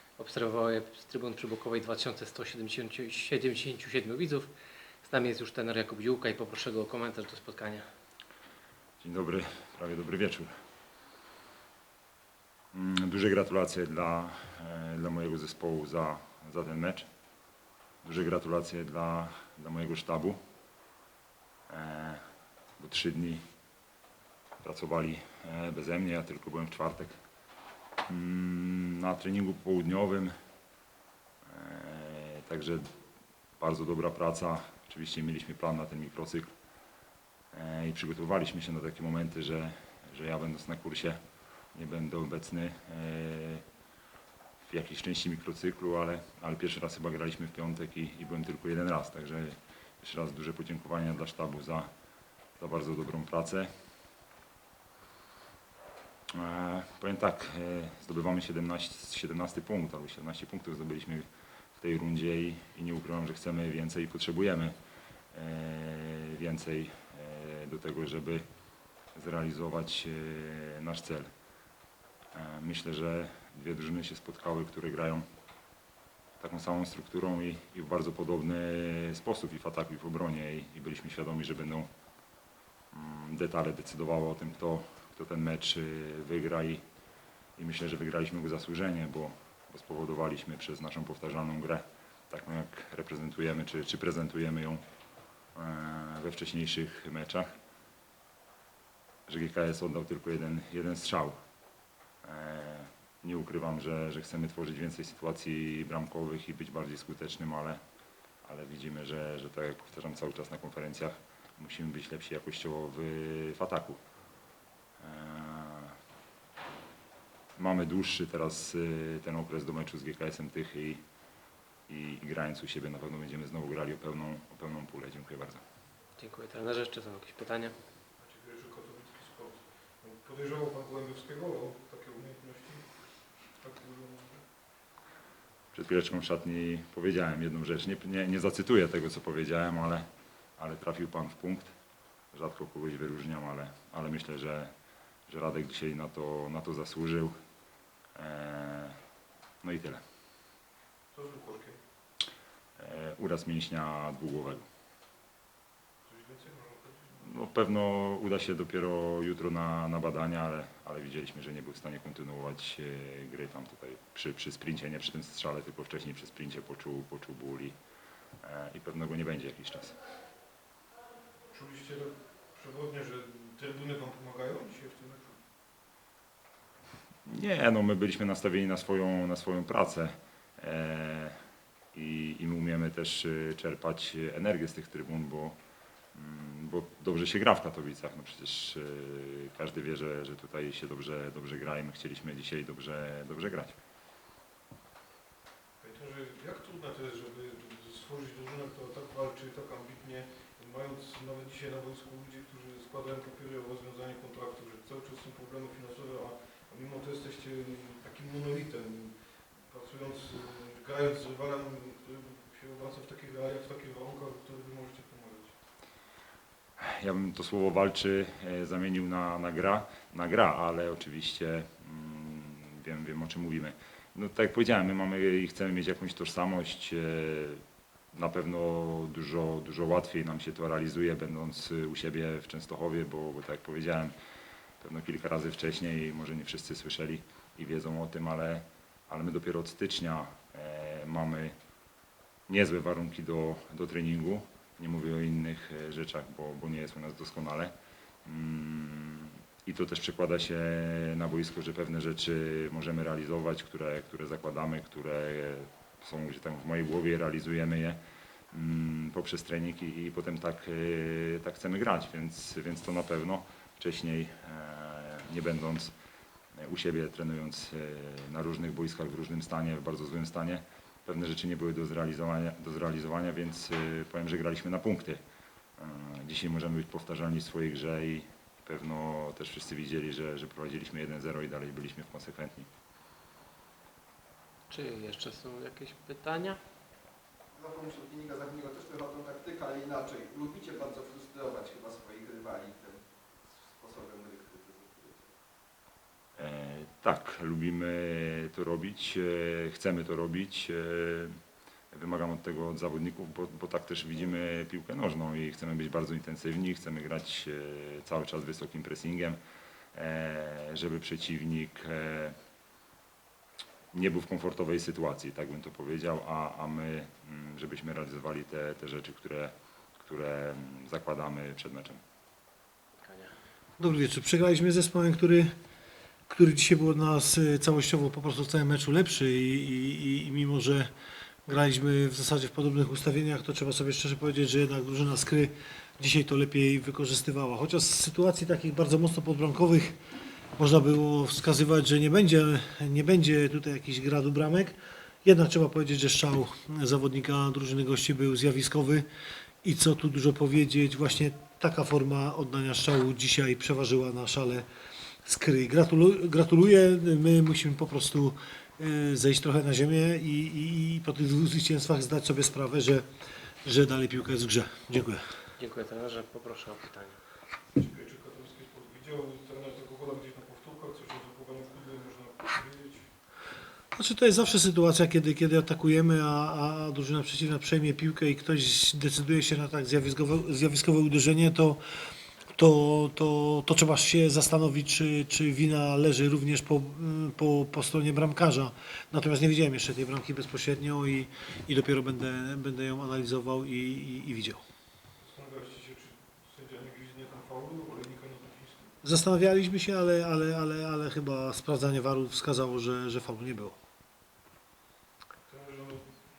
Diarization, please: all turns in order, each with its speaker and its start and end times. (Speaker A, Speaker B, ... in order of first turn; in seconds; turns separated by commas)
Speaker A: 0.2-4.5, Speaker A: 5.0-7.8, Speaker B: 9.0-10.5, Speaker B: 12.7-17.1, Speaker B: 18.0-20.4, Speaker B: 21.7-22.2, Speaker B: 22.8-23.4, Speaker B: 24.6-27.1, Speaker B: 28.1-30.3, Speaker B: 31.4-32.9, Speaker B: 33.6-36.5, Speaker B: 37.5-41.2, Speaker B: 41.7-43.6, Speaker B: 44.7-51.9, Speaker B: 52.6-53.7, Speaker B: 56.4-61.3, Speaker B: 61.8-64.8, Speaker B: 65.3-68.4, Speaker B: 69.1-71.3, Speaker B: 72.3-75.2, Speaker B: 76.4-81.9, Speaker B: 82.9-86.8, Speaker B: 87.6-94.8, Speaker B: 95.5-97.5, Speaker B: 99.3-101.3, Speaker B: 102.2-107.8, Speaker B: 108.4-114.0, Speaker B: 115.0-115.9, Speaker B: 117.6-121.0, Speaker B: 121.9-125.6, Speaker A: 126.2-127.7, Speaker C: 128.2-132.8, Speaker C: 133.6-134.4, Speaker B: 135.7-140.1, Speaker B: 140.6-141.7, Speaker B: 142.3-144.7, Speaker B: 145.3-147.3, Speaker B: 148.2-148.9, Speaker B: 149.6-150.0, Speaker C: 151.1-151.8, Speaker B: 152.8-154.6, Speaker C: 156.1-157.3, Speaker B: 157.2-167.8, Speaker B: 168.4-170.0, Speaker C: 171.5-175.4, Speaker B: 177.3-181.4, Speaker B: 181.9-185.6, Speaker B: 186.1-193.8, Speaker C: 195.8-215.5, Speaker B: 216.9-227.6, Speaker B: 228.1-234.1, Speaker B: 234.8-241.6, Speaker B: 242.5-247.7, Speaker B: 248.2-258.0, Speaker B: 258.5-265.9, Speaker B: 266.6-275.2, Speaker B: 275.8-282.7, Speaker A: 284.7-286.6, Speaker D: 287.5-295.3, Speaker B: 296.4-301.4, Speaker B: 301.9-309.4, Speaker B: 309.9-312.4, Speaker B: 313.9-322.0, Speaker A: 323.0-323.3, Speaker E: 323.8-325.5, Speaker E: 326.3-330.9, Speaker E: 331.4-340.0, Speaker E: 340.6-349.1, Speaker E: 349.6-354.6, Speaker E: 355.2-363.0, Speaker E: 363.6-365.2, Speaker A: 365.6-367.2, Speaker C: 367.7-373.1, Speaker E: 373.9-381.8, Speaker E: 382.6-394.6, Speaker C: 395.2-398.9, Speaker E: 399.0-403.8, Speaker C: 405.5-406.1